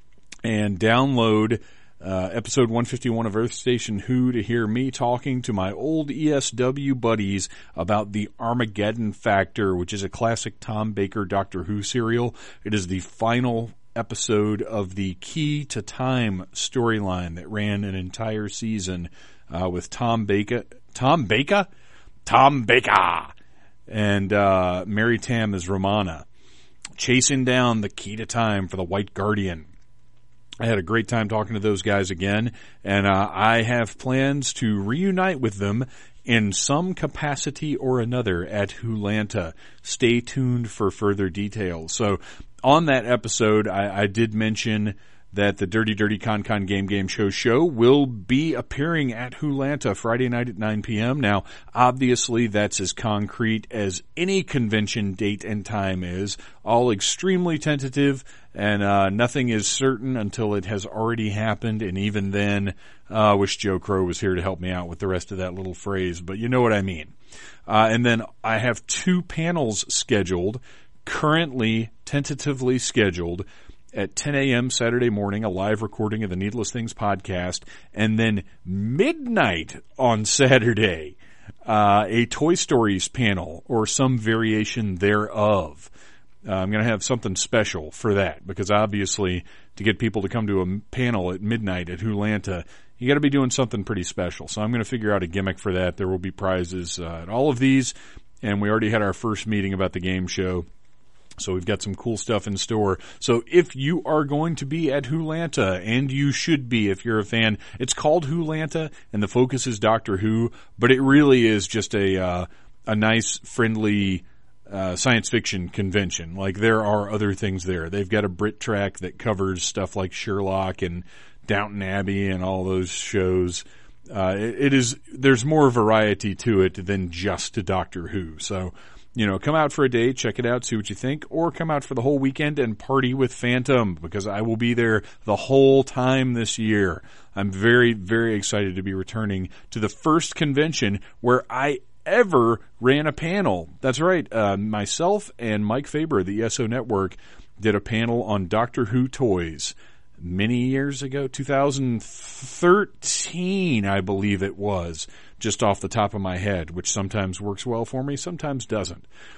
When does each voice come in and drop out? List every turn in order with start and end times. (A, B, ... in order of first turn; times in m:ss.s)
0:00.4-0:21.7 A
0:22.2-0:23.3 A
0:23.9-0:26.3 A
0:27.0-0:29.7 A
0:30.6-1:07.1 A
1:07.7-1:25.9 A
1:26.4-1:40.7 A
1:41.4-2:39.1 A